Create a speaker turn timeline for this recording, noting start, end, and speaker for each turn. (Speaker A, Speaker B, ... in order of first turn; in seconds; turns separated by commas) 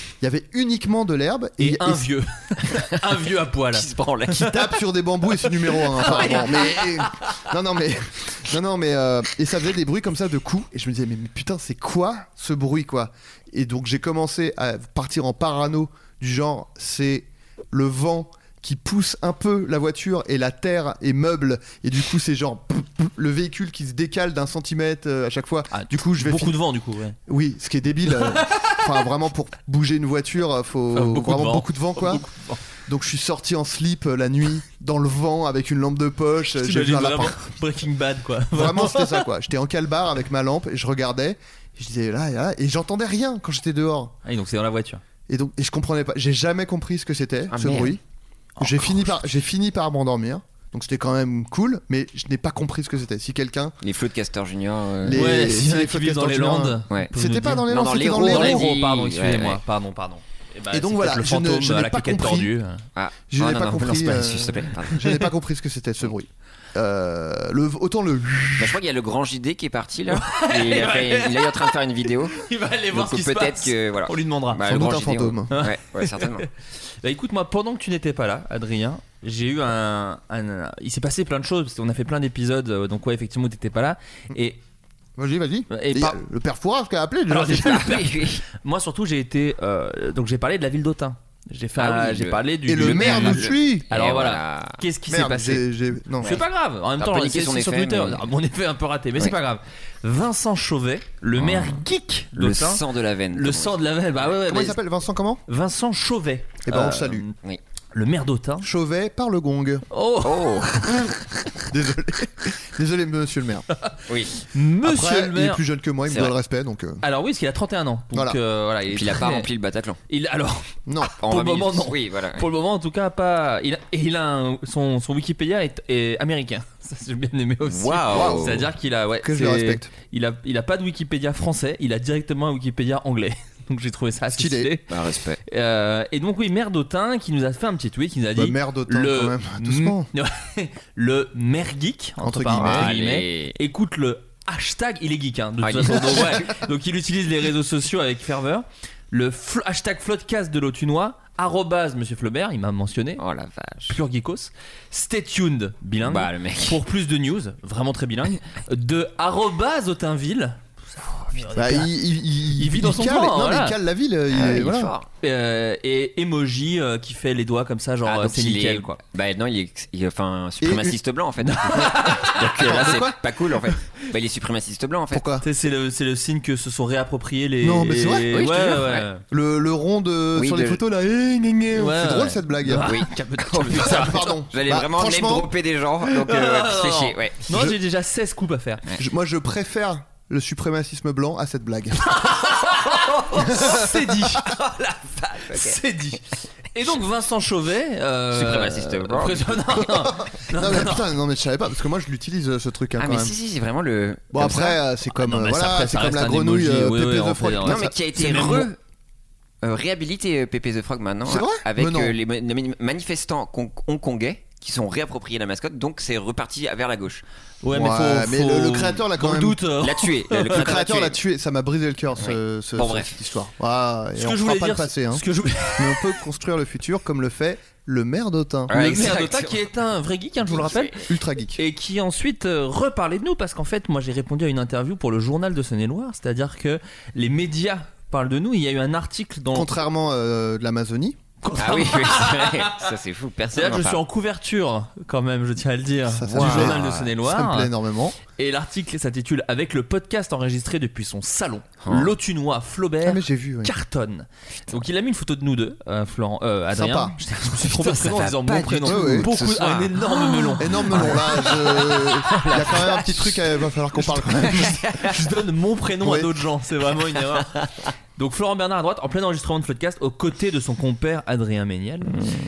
Speaker A: 0.2-2.1, Speaker B: 1.6-3.9, Speaker C: 3.7-4.6, Speaker A: 4.3-26.6, Speaker B: 6.0-6.5, Speaker C: 6.1-6.7, Speaker B: 25.7-27.2, Speaker A: 27.3-32.3, Speaker B: 28.1-28.8, Speaker B: 30.9-32.6, Speaker A: 32.9-37.5, Speaker B: 36.5-39.2, Speaker A: 38.5-44.1, Speaker B: 44.2-45.0, Speaker A: 45.3-48.0, Speaker C: 47.5-48.0, Speaker B: 48.6-49.0, Speaker A: 48.6-53.7, Speaker C: 53.8-55.3, Speaker A: 55.0-58.7, Speaker B: 55.1-62.8, Speaker C: 57.7-59.6, Speaker A: 60.7-62.5, Speaker C: 63.0-65.2, Speaker A: 63.3-68.8, Speaker C: 68.6-76.5, Speaker B: 70.1-71.7, Speaker B: 72.3-74.6, Speaker A: 74.6-75.5, Speaker B: 75.5-76.4, Speaker B: 77.0-84.6, Speaker A: 85.2-88.0, Speaker B: 85.7-86.2, Speaker B: 87.3-95.7, Speaker C: 87.5-88.4, Speaker C: 91.8-94.8, Speaker A: 92.7-93.8, Speaker A: 95.1-96.4, Speaker B: 96.2-104.8, Speaker C: 97.0-98.2, Speaker C: 101.3-103.8, Speaker A: 104.3-105.4, Speaker B: 105.5-107.3, Speaker A: 106.6-107.2, Speaker B: 107.9-108.7, Speaker A: 108.6-109.8, Speaker B: 109.9-111.0, Speaker C: 110.2-111.1, Speaker A: 111.7-113.7, Speaker B: 113.9-115.6, Speaker C: 114.1-114.3, Speaker A: 114.8-117.0, Speaker C: 116.1-116.3, Speaker B: 117.0-119.5, Speaker A: 118.1-118.4, Speaker C: 118.9-120.0, Speaker B: 120.1-134.9, Speaker A: 120.9-121.1, Speaker C: 121.2-122.5, Speaker C: 127.6-128.7, Speaker A: 128.1-128.6, Speaker A: 129.2-129.9, Speaker A: 134.3-134.7, Speaker C: 134.9-135.4, Speaker B: 135.4-153.2, Speaker A: 138.3-140.1, Speaker A: 142.2-142.9, Speaker C: 142.5-143.6, Speaker C: 145.6-146.6, Speaker C: 153.2-154.0, Speaker B: 153.9-161.9, Speaker C: 156.0-156.8, Speaker A: 161.5-164.9, Speaker B: 162.5-163.8, Speaker C: 164.3-165.1, Speaker B: 165.2-169.0, Speaker C: 168.1-175.3, Speaker A: 170.6-171.0, Speaker B: 171.5-173.0, Speaker A: 172.5-173.2, Speaker A: 175.1-175.4, Speaker B: 175.4-179.2, Speaker A: 177.6-182.9, Speaker C: 178.3-179.1, Speaker C: 180.3-180.8, Speaker B: 181.7-184.2, Speaker C: 182.8-187.4, Speaker A: 183.7-185.5, Speaker B: 186.2-188.8, Speaker A: 187.5-187.8, Speaker A: 189.0-192.3, Speaker B: 192.1-201.1, Speaker A: 193.4-194.0, Speaker C: 195.2-195.8, Speaker C: 198.3-199.9, Speaker A: 200.0-203.3, Speaker C: 203.0-204.8, Speaker A: 204.3-207.9, Speaker B: 205.1-208.7, Speaker C: 207.6-208.8, Speaker C: 209.6-217.2, Speaker A: 211.2-212.1, Speaker B: 217.6-220.8, Speaker A: 217.7-219.6, Speaker C: 219.8-221.2, Speaker A: 220.5-228.8, Speaker C: 222.2-223.2, Speaker B: 224.2-226.1, Speaker C: 228.7-229.6, Speaker B: 228.7-230.9, Speaker C: 230.4-231.0, Speaker A: 231.0-231.6, Speaker B: 231.6-239.7, Speaker A: 239.5-241.2, Speaker B: 241.4-242.9, Speaker C: 241.6-244.0, Speaker B: 243.5-247.7, Speaker A: 246.1-248.2, Speaker C: 246.3-247.1, Speaker B: 248.3-263.1, Speaker C: 251.8-252.1, Speaker A: 253.0-253.7, Speaker A: 256.7-257.2, Speaker C: 257.6-262.2, Speaker A: 258.8-259.3, Speaker A: 260.6-264.8, Speaker B: 264.0-267.5, Speaker C: 264.5-265.1, Speaker A: 266.0-266.3, Speaker B: 268.2-272.2